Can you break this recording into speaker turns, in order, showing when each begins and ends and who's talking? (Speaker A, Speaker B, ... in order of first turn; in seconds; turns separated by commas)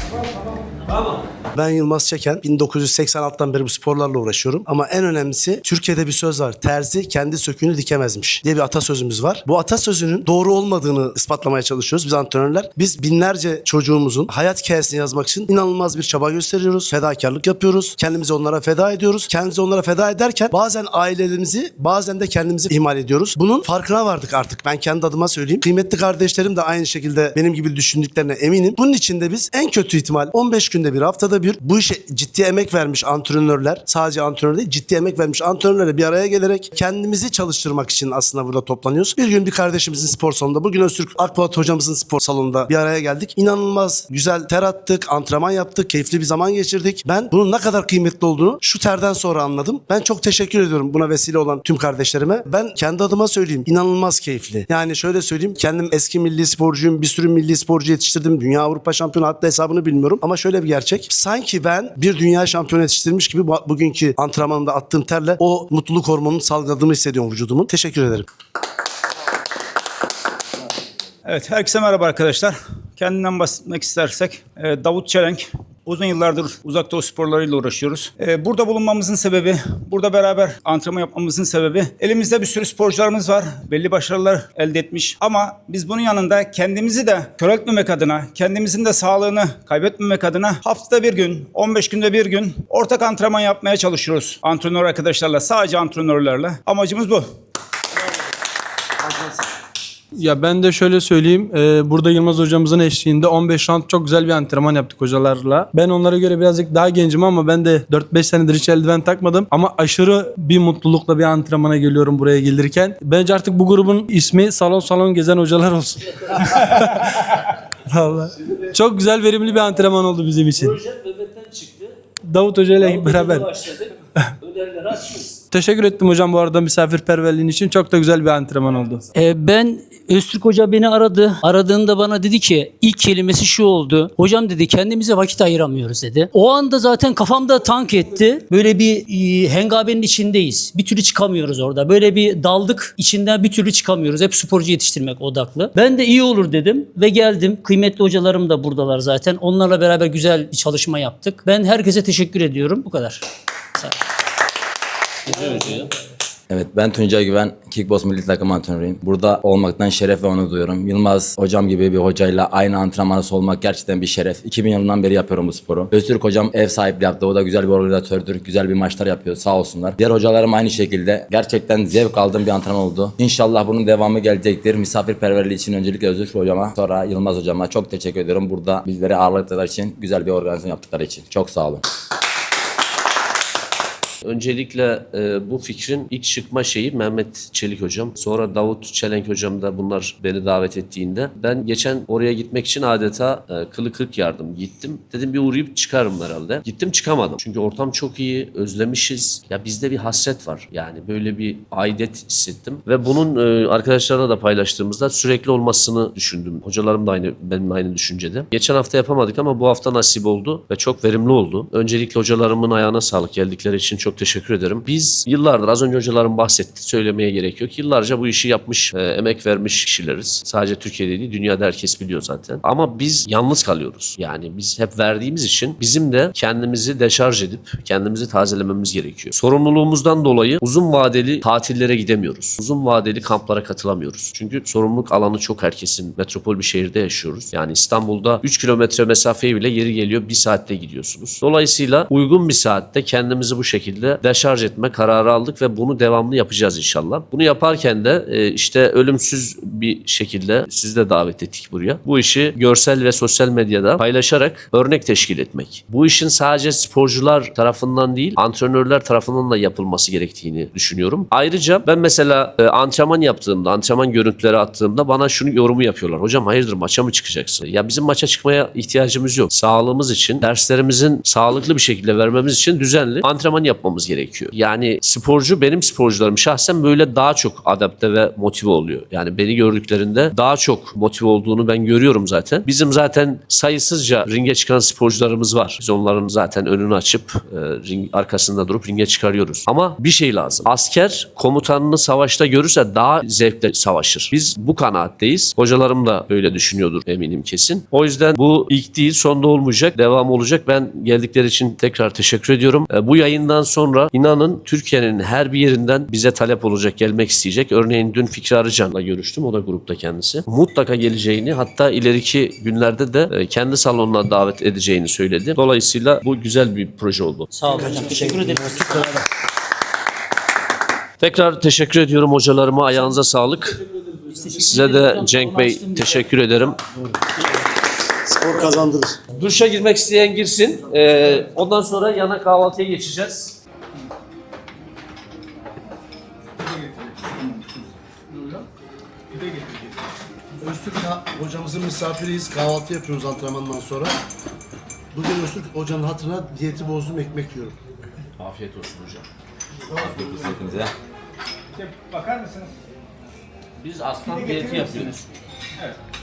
Speaker A: 0.8-1.2, Speaker B: 1.5-68.2, Speaker C: 71.3-97.2, Speaker D: 100.2-117.4, Speaker D: 117.9-120.7, Speaker A: 119.4-122.0, Speaker D: 122.3-123.5, Speaker A: 122.7-125.4, Speaker D: 125.5-129.0, Speaker E: 129.1-153.2, Speaker A: 155.2-155.9, Speaker E: 155.3-155.8, Speaker F: 156.5-181.8, Speaker A: 184.2-317.5, Speaker E: 317.5-319.2, Speaker B: 318.0-318.8, Speaker A: 321.2-323.8, Speaker E: 324.3-326.2, Speaker A: 324.5-326.8, Speaker B: 328.2-329.1, Speaker A: 329.3-333.5, Speaker B: 340.6-344.1, Speaker B: 345.1-347.7, Speaker A: 348.4-349.2, Speaker F: 349.9-350.9, Speaker C: 351.8-352.7, Speaker A: 353.8-355.2, Speaker C: 354.3-355.1